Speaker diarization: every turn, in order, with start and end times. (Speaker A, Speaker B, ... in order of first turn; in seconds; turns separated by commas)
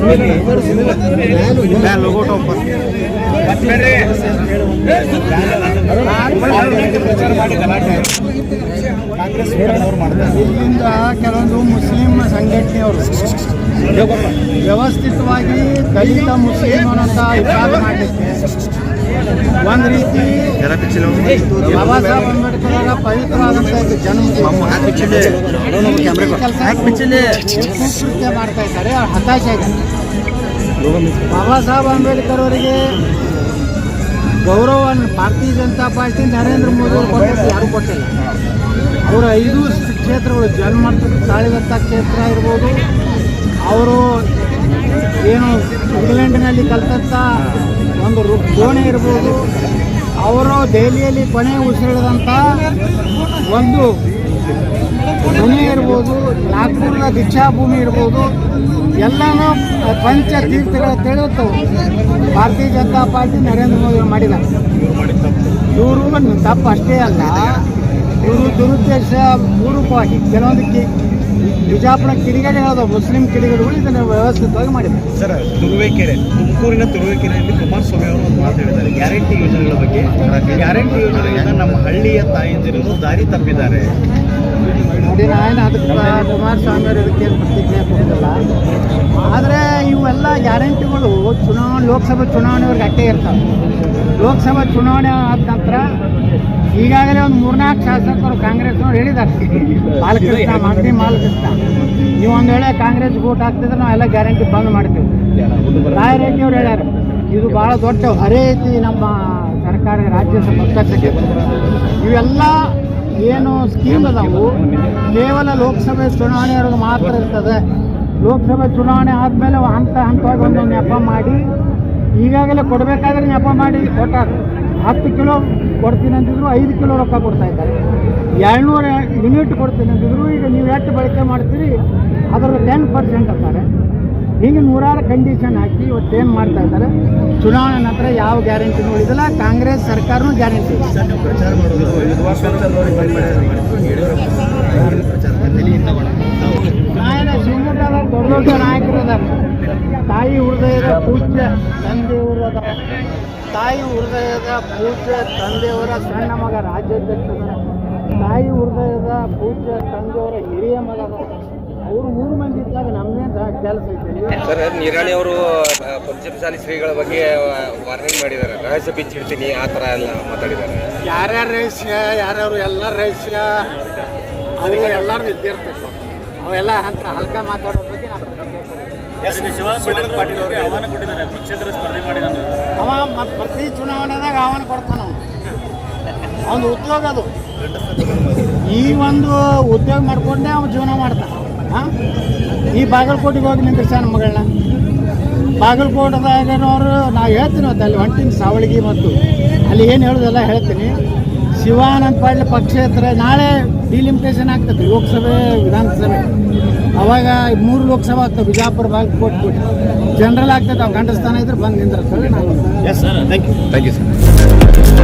Speaker A: 1.6-2.5, Speaker B: 3.6-4.1, Speaker C: 6.0-7.0, Speaker B: 6.7-8.1, Speaker B: 9.2-10.2, Speaker C: 10.2-13.3, Speaker C: 14.5-18.2, Speaker C: 19.5-20.6, Speaker A: 20.9-21.2, Speaker C: 21.5-29.8, Speaker A: 24.9-25.4, Speaker C: 31.3-32.8, Speaker C: 34.4-38.1, Speaker C: 39.0-42.9, Speaker C: 43.6-44.2, Speaker C: 45.2-49.5, Speaker C: 50.2-52.6, Speaker C: 53.3-53.9, Speaker C: 55.2-58.3, Speaker C: 59.0-61.7, Speaker C: 62.2-64.4, Speaker B: 64.8-65.5, Speaker C: 65.7-70.9, Speaker C: 71.5-75.1, Speaker B: 75.1-83.9, Speaker A: 80.2-80.5, Speaker C: 85.0-88.4, Speaker C: 89.2-93.4, Speaker C: 94.1-95.9, Speaker C: 96.7-101.6, Speaker C: 102.2-111.3, Speaker C: 111.9-117.6, Speaker C: 118.2-121.5, Speaker C: 122.1-127.8, Speaker C: 128.4-131.8, Speaker C: 132.3-133.7, Speaker C: 134.4-140.9, Speaker B: 140.9-146.0, Speaker C: 146.9-149.4, Speaker C: 150.1-152.8, Speaker C: 153.5-164.4, Speaker A: 164.5-170.9, Speaker C: 171.0-173.8, Speaker C: 174.6-178.9, Speaker B: 179.2-182.3, Speaker C: 182.8-185.2, Speaker C: 186.4-187.3, Speaker B: 187.9-188.2, Speaker C: 188.6-191.9, Speaker C: 192.7-194.5, Speaker C: 195.6-201.0, Speaker C: 201.6-206.3, Speaker C: 206.9-212.9, Speaker B: 213.1-213.7